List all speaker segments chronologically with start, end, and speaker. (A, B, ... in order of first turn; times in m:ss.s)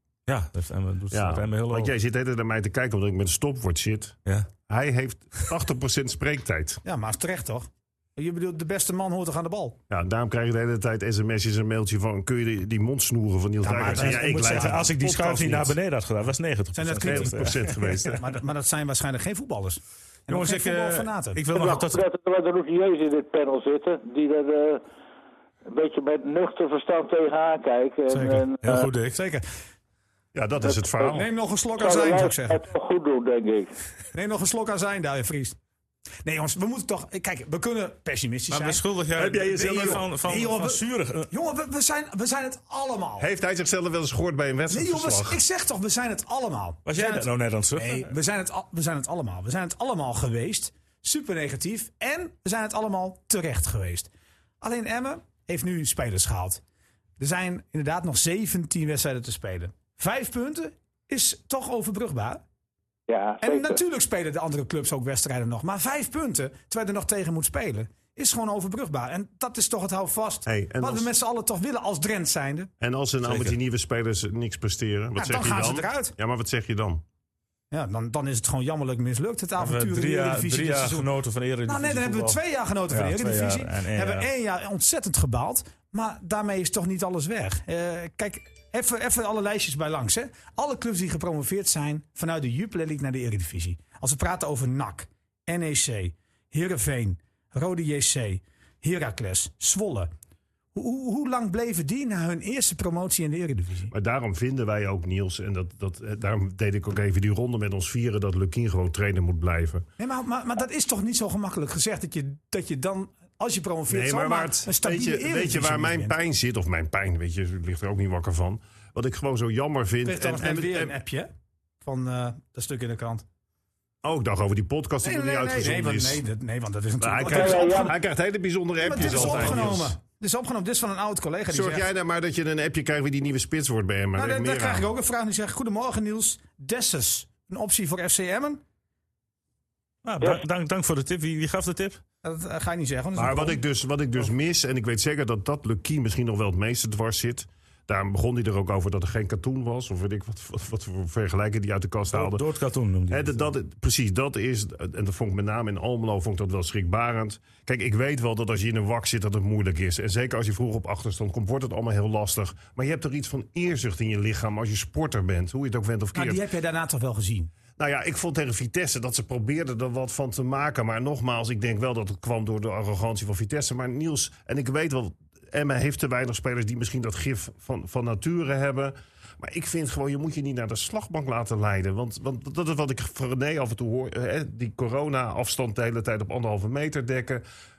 0:00.3-0:01.9 A
0:01.1-0:04.2 B
0:04.7-0:06.8 B
0:06.8-0:09.8 C
0:09.9-0:15.7 B
0:13.6-0:14.8 C
0:13.7-0:18.1 A
0:16.7-0:21.4 C
0:17.0-0:18.2 B
0:20.3-0:22.0 A
0:21.5-0:24.8 D
0:25.6-0:28.6 D
0:28.1-0:29.4 C
0:28.6-0:29.2 A
0:30.3-0:31.2 B
0:30.7-0:31.2 D
0:31.1-0:32.6 C
0:31.8-0:33.7 D
0:34.1-0:35.6 C
0:36.2-0:38.8 C
0:38.5-0:41.3 A
0:39.2-0:40.0 B
0:39.4-0:43.3 C
0:43.2-0:45.4 B
0:44.7-0:54.1 C
0:46.8-0:48.1 A
0:54.6-0:56.6 C
0:57.2-1:02.4 C
1:03.1-1:03.8 D
1:03.4-1:12.7 C
1:10.5-1:11.1 B
1:12.8-1:17.0 B
1:13.2-1:13.6 A
1:15.2-1:16.1 C
1:17.7-1:21.1 C
1:19.6-1:22.4 A
1:21.6-1:40.1 C
1:22.9-1:24.2 A
1:40.7-1:43.9 C
1:43.9-1:49.8 B
1:50.0-1:56.2 C
1:53.9-2:00.9 B
2:00.0-2:01.3 C
2:01.8-2:03.2 C
2:04.0-2:06.2 B
2:05.0-2:08.0 C
2:07.0-2:09.9 B
2:07.3-2:07.9 D
2:08.8-2:11.9 C
2:11.5-2:14.8 B
2:14.1-2:18.6 C
2:20.0-2:22.0 A
2:22.2-2:23.6 C
2:23.2-2:32.4 B
2:32.1-2:33.5 A
2:33.1-2:46.4 B
2:46.1-2:47.5 C
2:47.8-3:07.4 B